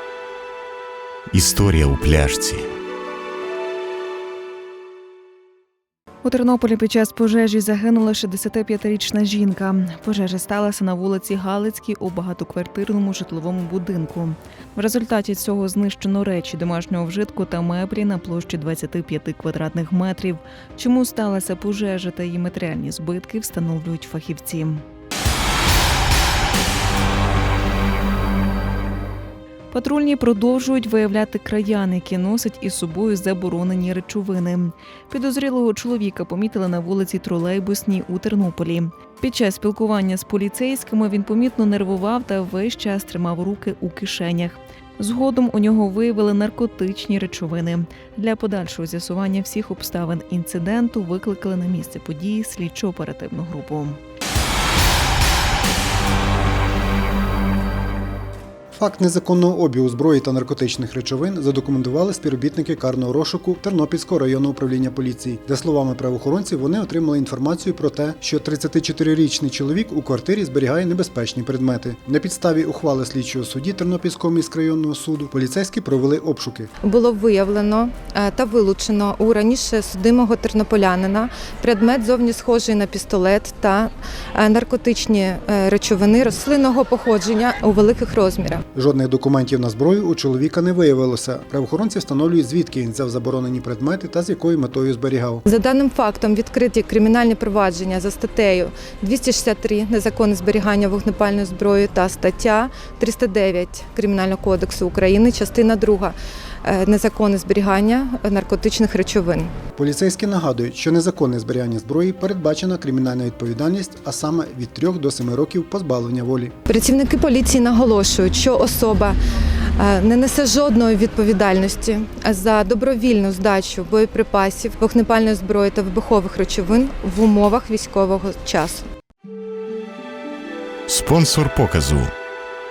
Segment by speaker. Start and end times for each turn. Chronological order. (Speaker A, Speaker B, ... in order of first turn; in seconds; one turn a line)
Speaker A: 1.3-2.6
Speaker B: 6.2-24.8
Speaker B: 29.7-54.0
Speaker C: 58.7-76.7
Speaker D: 76.8-88.6
Speaker C: 88.7-95.4
Speaker D: 95.5-109.5
Speaker C: 109.8-116.5
Speaker D: 116.7-119.2
Speaker D: 119.8-128.9
Speaker A: 130.9-132.1